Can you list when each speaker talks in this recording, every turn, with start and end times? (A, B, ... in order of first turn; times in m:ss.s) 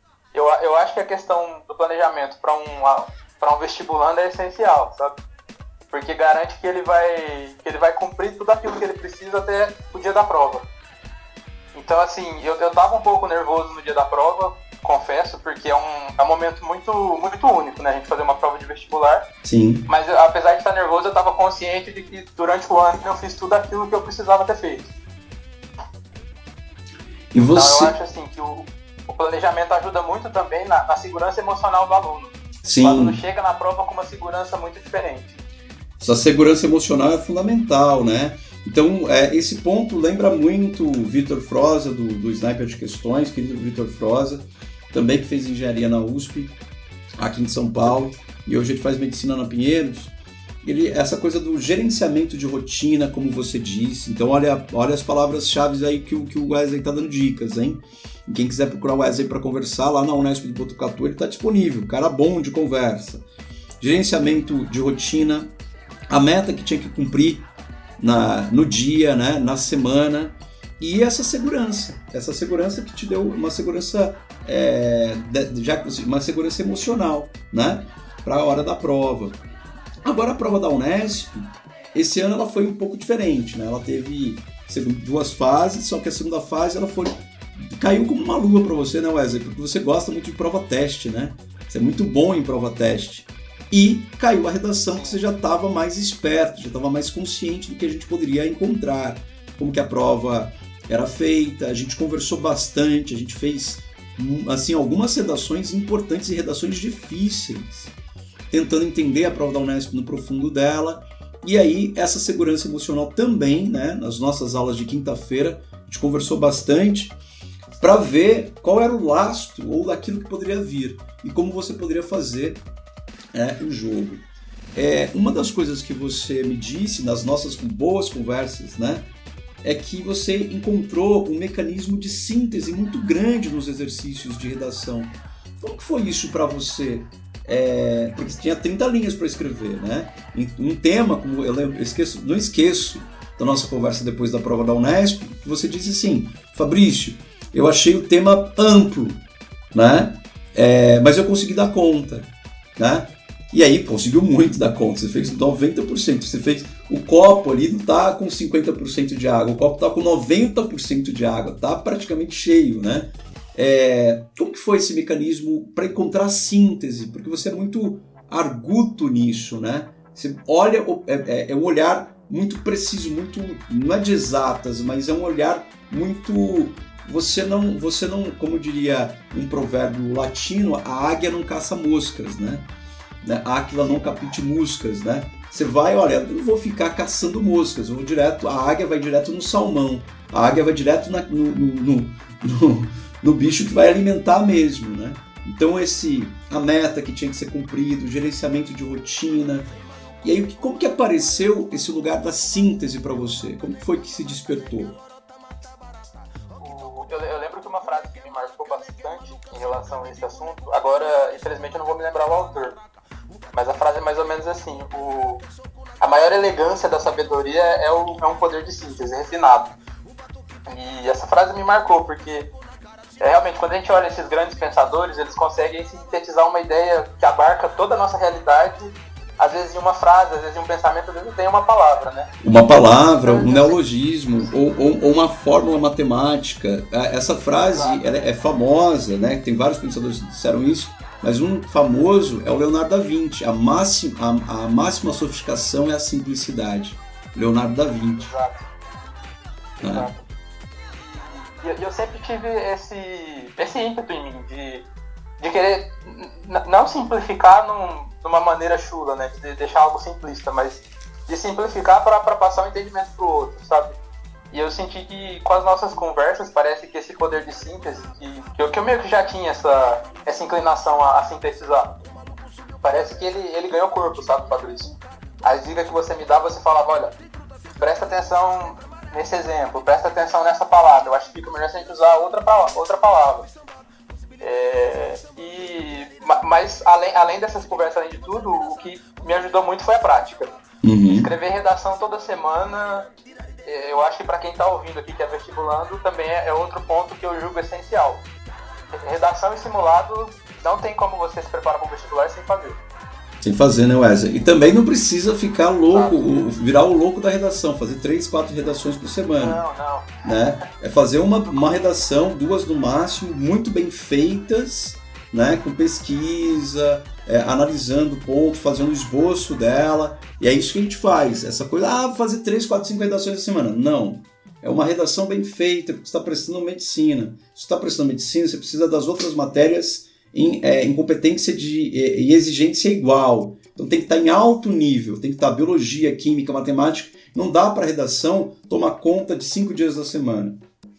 0:00.3-0:05.2 A
0:05.9-0:10.6 A
0:11.7-0:19.2 A
0:19.4-0:19.9 B
0:19.9-0:24.9 A
0:27.3-0:27.9 B
0:27.5-0:35.4 A
0:32.6-0:33.2 B
0:36.0-0:46.6 B
0:47.2-1:03.2 B
1:03.8-1:05.5 B
1:06.1-1:07.5 B
1:08.0-1:19.4 B
1:20.0-1:47.9 B
1:34.9-1:35.2 A
1:48.5-1:57.2 B
1:57.8-2:02.6 B
2:03.3-2:09.1 B
2:09.6-2:29.2 B
2:29.7-3:02.7 B
3:03.2-3:19.7 B
3:20.2-3:25.0 B
3:26.6-3:32.8 A
3:33.5-3:35.4 A
3:36.0-3:39.8 A
3:40.7-3:42.5 A
3:43.2-3:52.3 A
3:52.4-4:08.4 B
3:53.1-3:53.8 A
3:57.6-3:58.3 A
4:08.3-4:08.7 A
4:09.8-4:10.1 B
4:09.8-4:10.3 A
4:10.8-4:14.9 A
4:15.4-4:24.0 A
4:24.5-4:32.0 A
4:32.8-4:37.1 A
4:37.8-4:43.5 A
4:44.4-4:50.5 A
4:50.8-4:51.3 B
4:51.1-4:53.1 A
4:53.6-4:58.2 A
4:59.0-5:02.8 A
5:03.4-5:09.6 B
5:05.9-5:06.4 A
5:09.4-5:10.2 A
5:10.2-5:40.6 B